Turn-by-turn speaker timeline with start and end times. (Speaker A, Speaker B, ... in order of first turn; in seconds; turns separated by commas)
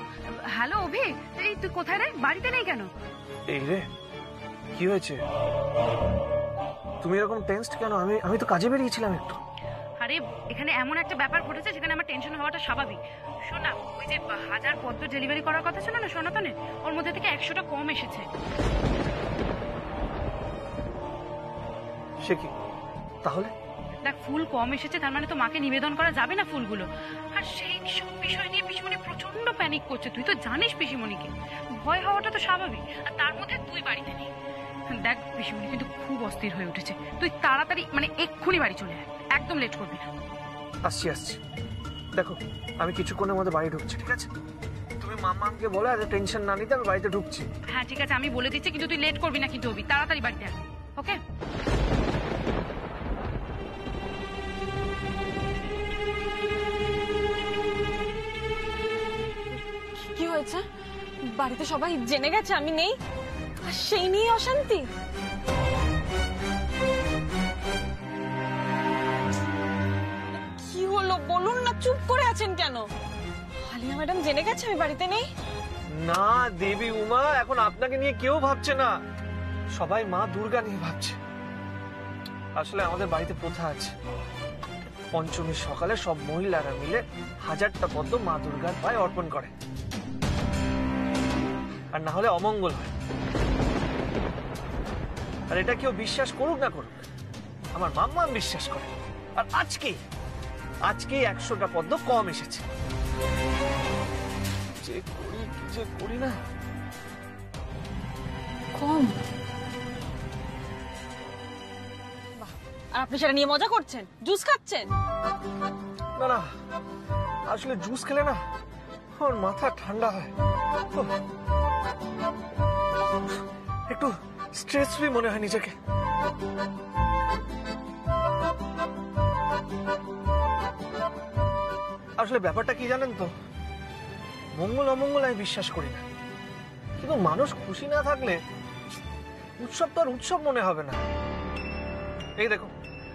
Speaker A: 0.5-2.9, Speaker B: 3.5-3.9, Speaker B: 4.7-5.2, Speaker B: 7.0-9.4, Speaker A: 10.0-13.0, Speaker A: 13.5-18.3, Speaker B: 22.2-22.5, Speaker B: 23.2-23.5, Speaker A: 24.0-34.3, Speaker A: 34.9-40.1, Speaker B: 40.8-41.4, Speaker B: 42.1-44.3, Speaker B: 45.0-47.5, Speaker A: 47.7-51.2, Speaker C: 60.0-60.6, Speaker C: 61.3-63.0, Speaker C: 63.6-64.8, Speaker C: 70.5-72.8, Speaker C: 73.6-75.2, Speaker B: 76.0-78.9, Speaker B: 79.7-81.2, Speaker B: 82.5-83.9, Speaker B: 85.1-89.5, Speaker B: 91.9-92.9, Speaker B: 95.5-97.0, Speaker B: 97.7-100.0, Speaker B: 100.9-102.6, Speaker B: 104.8-106.4, Speaker C: 108.8-109.1, Speaker C: 112.4-114.8, Speaker B: 116.2-116.5, Speaker B: 117.5-118.4, Speaker B: 119.2-120.3, Speaker B: 123.9-125.7, Speaker B: 132.2-133.3, Speaker B: 134.6-136.0, Speaker B: 137.0-138.4, Speaker B: 139.6-141.0, Speaker B: 142.4-142.7